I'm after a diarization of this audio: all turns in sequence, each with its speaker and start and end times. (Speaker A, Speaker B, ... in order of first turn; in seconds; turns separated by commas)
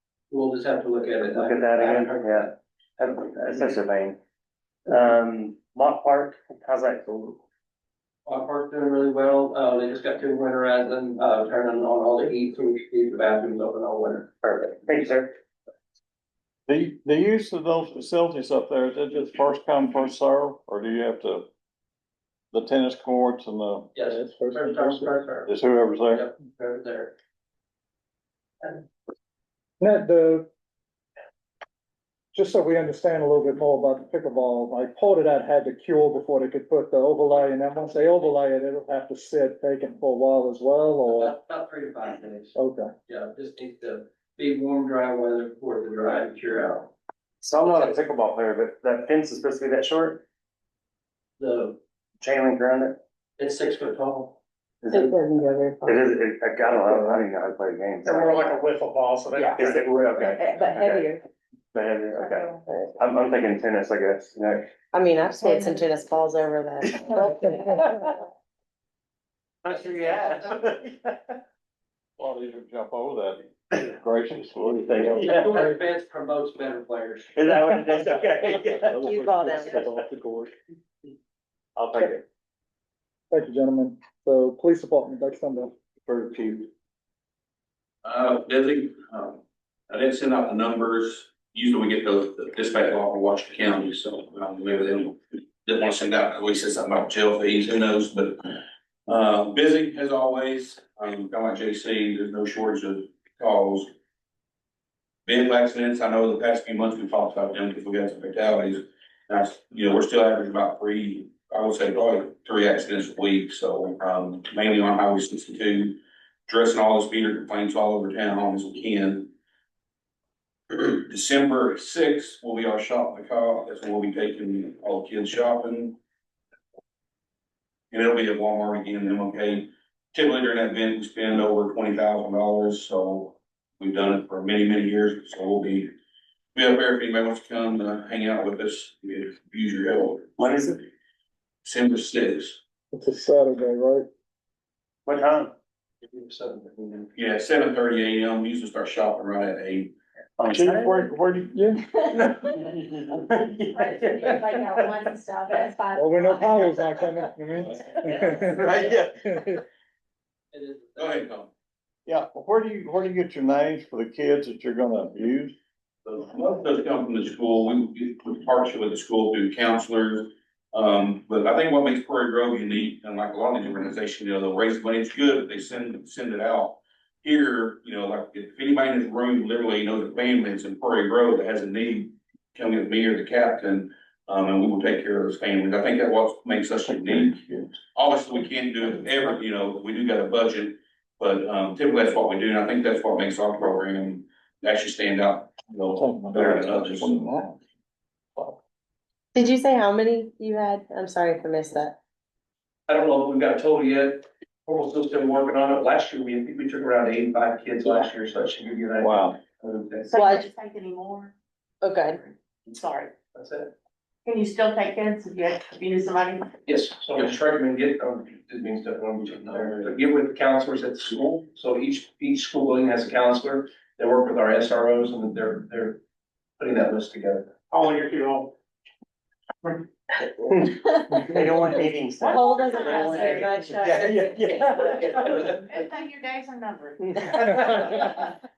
Speaker A: 0.3-2.5, Speaker B: 1.3-4.2, Speaker B: 4.9-7.4, Speaker A: 8.2-14.3, Speaker B: 14.4-15.3, Speaker C: 16.7-21.5, Speaker C: 22.5-23.9, Speaker A: 23.9-27.1, Speaker D: 24.0-25.1, Speaker C: 25.4-26.3, Speaker D: 29.8-30.5, Speaker D: 32.3-41.3, Speaker A: 41.1-42.5, Speaker D: 42.5-42.9, Speaker A: 43.1-46.9, Speaker B: 47.4-50.2, Speaker A: 51.4-51.8, Speaker B: 52.2-53.0, Speaker A: 53.4-54.4, Speaker B: 54.8-55.1, Speaker E: 54.9-56.0, Speaker B: 55.8-58.6, Speaker F: 56.9-57.2, Speaker F: 58.0-60.1, Speaker B: 59.6-61.2, Speaker E: 60.2-61.2, Speaker B: 61.7-64.7, Speaker G: 62.2-62.7, Speaker E: 64.9-68.1, Speaker G: 65.5-65.8, Speaker B: 69.6-71.1, Speaker C: 72.2-75.4, Speaker B: 74.7-75.8, Speaker A: 75.2-77.3, Speaker B: 77.3-79.2, Speaker E: 79.0-79.8, Speaker C: 79.0-80.4, Speaker D: 79.3-80.1, Speaker B: 81.8-82.2, Speaker D: 83.3-86.7, Speaker H: 88.0-98.5, Speaker H: 99.1-103.9, Speaker H: 105.2-119.3, Speaker H: 120.7-126.0, Speaker H: 127.9-135.9, Speaker H: 136.5-140.3, Speaker B: 140.4-140.8, Speaker H: 141.6-142.6, Speaker D: 142.9-144.1, Speaker B: 145.1-145.5, Speaker A: 146.0-147.1, Speaker H: 147.1-149.9, Speaker B: 150.4-151.1, Speaker C: 150.5-151.6, Speaker D: 151.5-151.8, Speaker B: 152.1-154.9, Speaker G: 153.7-157.0, Speaker D: 155.9-159.6, Speaker C: 158.6-159.2, Speaker A: 160.5-161.2, Speaker H: 161.0-161.5, Speaker C: 162.1-165.6, Speaker H: 166.0-197.2, Speaker C: 187.3-187.7, Speaker D: 195.9-197.6, Speaker E: 199.3-202.0, Speaker A: 202.9-210.0, Speaker C: 209.0-209.3, Speaker G: 210.1-211.3, Speaker E: 210.1-210.5, Speaker E: 211.8-212.2, Speaker G: 212.0-213.1, Speaker G: 214.2-216.5, Speaker A: 216.7-226.0, Speaker A: 226.6-227.4, Speaker F: 227.7-228.5, Speaker B: 230.5-235.4, Speaker E: 232.2-234.3, Speaker G: 232.2-233.6, Speaker F: 233.8-235.0, Speaker G: 234.4-237.9